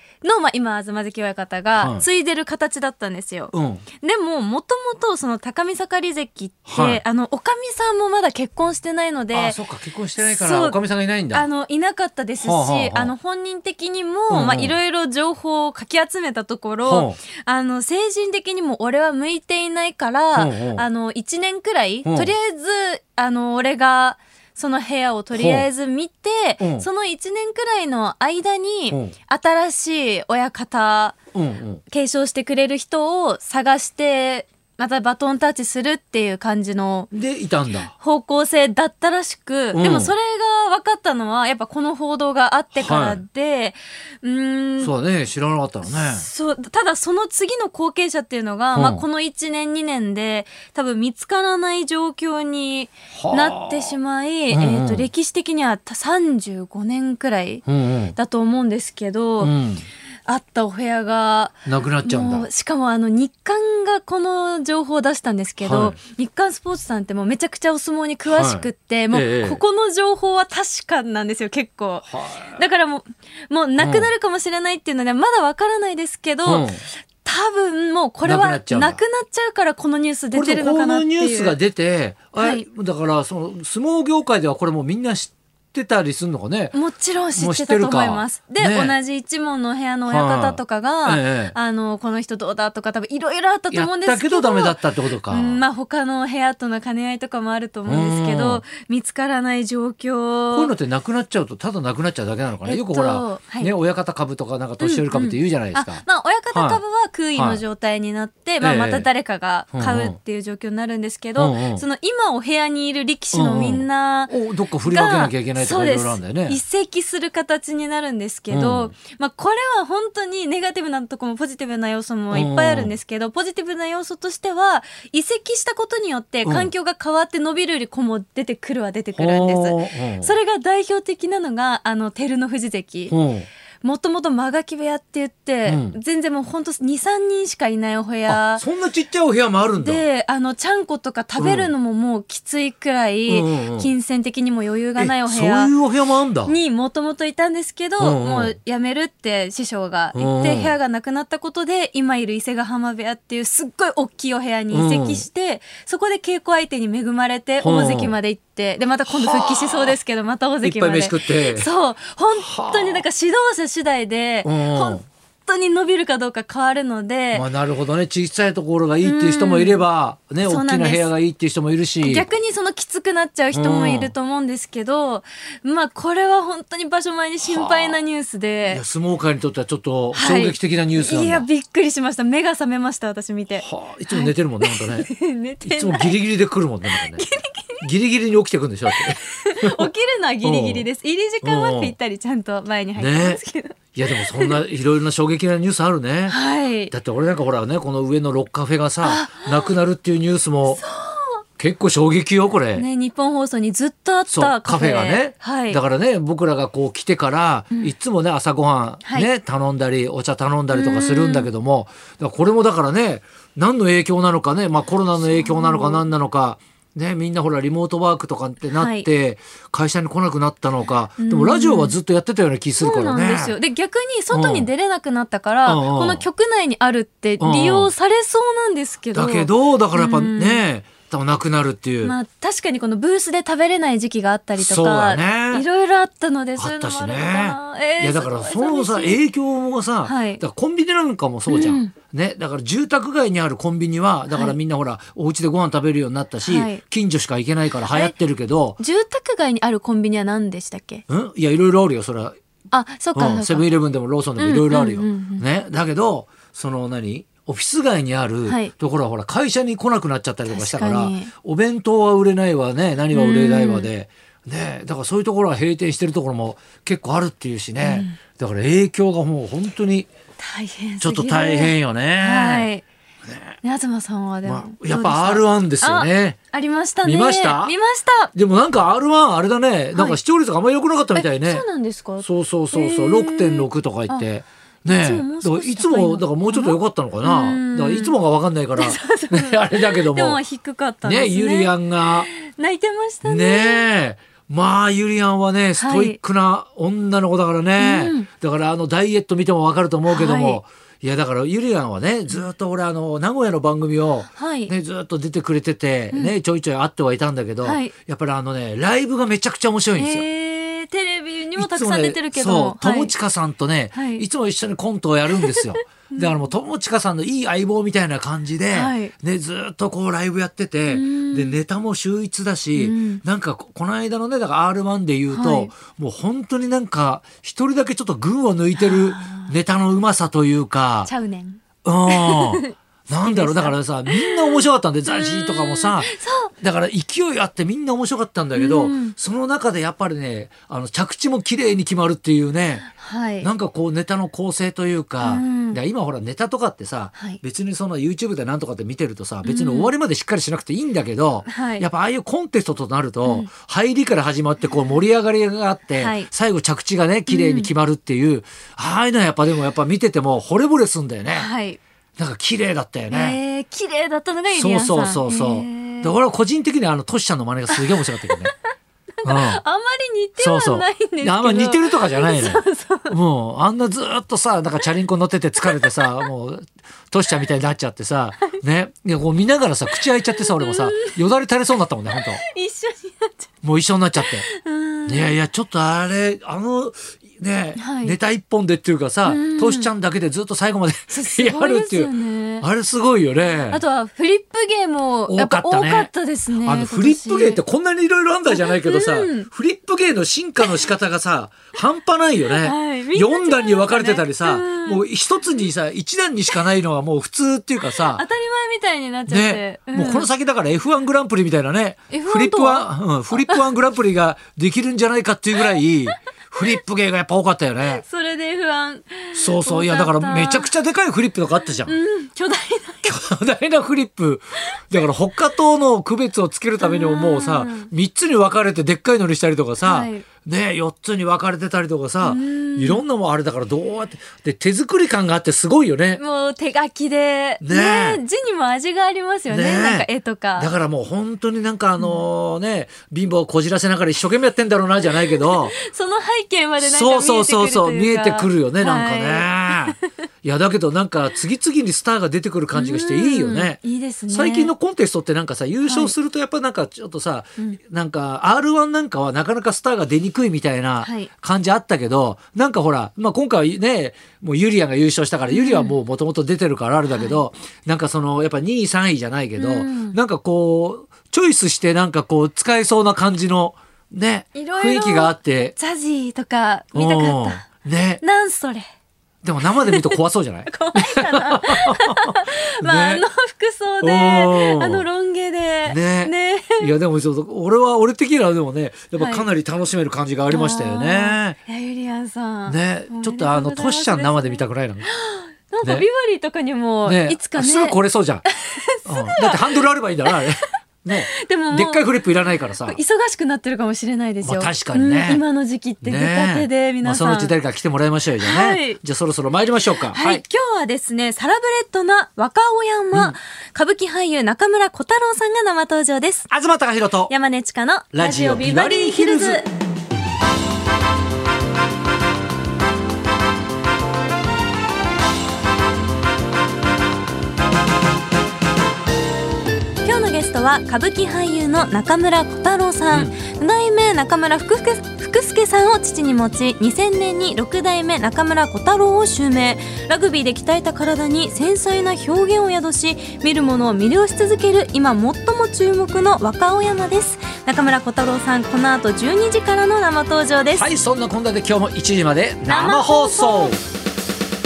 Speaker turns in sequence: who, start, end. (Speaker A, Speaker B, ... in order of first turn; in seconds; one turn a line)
Speaker A: 0.2-9.6
Speaker B: 1.8-2.1
Speaker B: 3.5-3.8
Speaker B: 6.7-7.0
Speaker B: 9.3-11.4
Speaker A: 10.2-31.1
Speaker B: 12.4-13.1
Speaker B: 14.3-14.7
Speaker B: 16.8-17.2
Speaker B: 20.3-20.8
Speaker B: 22.0-22.3
Speaker B: 25.3-25.7
Speaker B: 26.6-26.9
Speaker B: 31.3-31.8
Speaker A: 31.9-37.1
Speaker B: 37.1-37.9
Speaker A: 37.9-44.9
Speaker B: 39.7-40.1
Speaker B: 42.7-43.2
Speaker B: 44.8-46.2
Speaker A: 46.0-57.6
Speaker B: 48.7-49.0
Speaker B: 53.1-53.9
Speaker B: 54.5-55.1
Speaker B: 57.6-58.1
Speaker A: 58.1-59.5
Speaker B: 59.4-59.8
Speaker A: 60.2-76.7
Speaker B: 61.6-62.5
Speaker B: 65.6-66.0
Speaker B: 68.3-69.6
Speaker B: 72.1-72.6
Speaker B: 73.8-74.1
Speaker B: 76.4-76.8
Speaker A: 77.2-81.6
Speaker B: 78.2-79.0
Speaker B: 80.3-86.8
Speaker A: 82.3-82.7
Speaker A: 86.7-100.7
Speaker B: 87.3-89.0
Speaker B: 90.1-91.5
Speaker B: 93.7-95.6
Speaker B: 97.8-98.6
Speaker B: 100.5-106.8
Speaker A: 102.6-103.7
Speaker A: 104.8-114.3
Speaker B: 107.3-107.6
Speaker B: 108.6-109.1
Speaker B: 109.7-110.2
Speaker B: 111.4-111.8
Speaker B: 113.3-116.6
Speaker A: 114.8-133.1
Speaker B: 118.5-118.9
Speaker B: 122.3-122.9
Speaker B: 126.4-126.7
Speaker B: 129.2-130.3
Speaker B: 133.1-133.5
Speaker A: 133.8-138.6
Speaker B: 135.7-136.0
Speaker B: 138.3-140.0
Speaker A: 139.8-145.7
Speaker B: 141.4-141.7
Speaker B: 143.3-143.9
Speaker B: 145.0-146.5
Speaker A: 146.4-167.5
Speaker B: 148.0-148.5
Speaker B: 150.1-150.7
Speaker B: 154.7-155.2
Speaker B: 157.6-158.1
Speaker B: 159.1-159.9
Speaker B: 160.6-161.7
Speaker B: 162.3-163.0
Speaker B: 164.4-165.0
Speaker B: 167.3-172.3
Speaker A: 169.0-169.8
Speaker A: 170.4-171.1
Speaker A: 172.0-178.8
Speaker B: 173.5-174.1
Speaker B: 177.4-178.0
Speaker B: 178.7-181.4
Speaker A: 180.1-186.2
Speaker B: 183.6-185.1
Speaker B: 185.6-187.2
Speaker A: 186.8-187.8
Speaker B: 187.8-189.9
Speaker A: 188.9-194.6
Speaker B: 190.4-190.9
Speaker B: 191.4-191.9
Speaker B: 192.9-193.4
Speaker B: 193.9-196.4
Speaker A: 196.3-196.9
Speaker B: 196.9-200.8
Speaker A: 199.0-199.7
Speaker A: 200.7-201.4
Speaker B: 201.6-202.8
Speaker A: 202.7-205.8
Speaker B: 204.3-223.5
Speaker A: 210.7-211.5
Speaker A: 215.2-216.0
Speaker A: 218.8-219.1
Speaker A: 221.2-221.9
Speaker A: 222.8-230.6
Speaker B: 224.3-224.7
Speaker B: 225.7-226.2
Speaker B: 227.4-227.9
Speaker B: 229.1-232.1
Speaker A: 232.0-239.2
Speaker B: 234.6-235.7
Speaker B: 236.6-248.8
Speaker A: 240.0-240.4
Speaker A: 241.5-241.9
Speaker A: 244.3-244.6
Speaker A: 246.4-246.8
Speaker A: 248.8-251.0
Speaker B: 251.1-252.3
Speaker A: 252.7-253.7
Speaker B: 253.1-270.1
Speaker A: 254.4-255.4
Speaker A: 258.4-258.7
Speaker A: 260.5-261.3
Speaker A: 263.1-263.9
Speaker A: 267.8-268.2
Speaker A: 270.4-272.8
Speaker B: 271.0-272.7
Speaker B: 273.2-273.5
Speaker A: 273.6-278.3
Speaker B: 274.4-276.4
Speaker B: 277.0-277.7
Speaker B: 278.3-281.6
Speaker A: 281.1-284.2
Speaker B: 282.2-290.4
Speaker A: 284.8-288.1
Speaker A: 288.8-293.9
Speaker B: 291.0-292.3
Speaker B: 293.2-310.2
Speaker A: 295.8-296.2
Speaker A: 297.8-298.3
Speaker A: 300.1-300.6
Speaker A: 304.3-304.7
Speaker A: 307.6-307.9
Speaker A: 310.0-313.1
Speaker B: 311.6-331.1
Speaker A: 313.9-314.2
Speaker A: 315.6-316.4
Speaker A: 318.7-319.1
Speaker A: 320.9-321.6
Speaker A: 322.7-323.2
Speaker A: 325.3-325.7
Speaker A: 328.8-329.5
Speaker A: 331.1-336.5
Speaker B: 331.8-342.9
Speaker A: 338.5-339.1
Speaker A: 342.9-343.5
Speaker B: 343.4-361.5
Speaker A: 345.2-345.8
Speaker A: 347.1-347.4
Speaker A: 349.4-349.9
Speaker A: 351.5-351.9
Speaker A: 355.9-356.3
Speaker A: 357.3-357.7
Speaker A: 361.3-361.8
Speaker B: 362.2-363.4
Speaker A: 363.1-366.1
Speaker B: 364.5-368.5
Speaker A: 367.7-368.5
Speaker A: 369.2-373.1
Speaker B: 369.2-369.6
Speaker B: 370.4-382.4
Speaker A: 375.6-376.2
Speaker A: 380.4-381.1
Speaker A: 382.1-383.5
Speaker B: 383.6-384.4
Speaker A: 384.4-385.4
Speaker B: 385.1-393.8
Speaker A: 387.8-388.2
Speaker A: 389.2-389.9
Speaker A: 391.1-392.6
Speaker A: 393.7-397.6
Speaker B: 395.3-396.1
Speaker B: 396.6-408.2
Speaker A: 398.5-399.5
Speaker A: 400.6-400.9
Speaker A: 402.5-405.0
Speaker A: 407.9-410.3
Speaker B: 409.3-418.0
Speaker A: 412.1-413.7
Speaker A: 415.6-416.8
Speaker A: 417.8-420.7
Speaker B: 419.3-421.9
Speaker A: 421.8-423.1
Speaker B: 423.0-436.2
Speaker A: 426.8-427.9
Speaker A: 429.8-430.3
Speaker A: 432.2-433.0
Speaker A: 436.2-440.7
Speaker B: 437.6-438.2
Speaker B: 439.5-445.7
Speaker A: 442.0-442.2
Speaker A: 445.3-450.0
Speaker B: 446.8-453.8
Speaker A: 452.7-454.7
Speaker B: 454.3-475.7
Speaker A: 455.8-456.1
Speaker A: 461.0-461.3
Speaker A: 465.5-465.9
Speaker A: 467.1-467.4
Speaker A: 469.6-470.2
Speaker A: 474.5-477.6
Speaker B: 476.9-478.2
Speaker A: 478.2-478.9
Speaker B: 479.4-483.2
Speaker A: 479.8-486.9
Speaker B: 484.0-485.1
Speaker B: 485.9-491.6
Speaker A: 489.2-489.4
Speaker A: 490.5-500.4
Speaker B: 492.6-495.1
Speaker B: 497.0-498.4
Speaker B: 499.0-503.0
Speaker A: 501.1-502.1
Speaker A: 502.8-507.5
Speaker B: 504.4-505.4
Speaker B: 506.0-510.4
Speaker A: 508.4-509.0
Speaker A: 510.1-516.5
Speaker B: 516.5-517.3
Speaker A: 517.3-519.7
Speaker B: 518.1-519.6
Speaker A: 530.0-550.9
Speaker B: 550.7-553.8
Speaker A: 552.7-553.8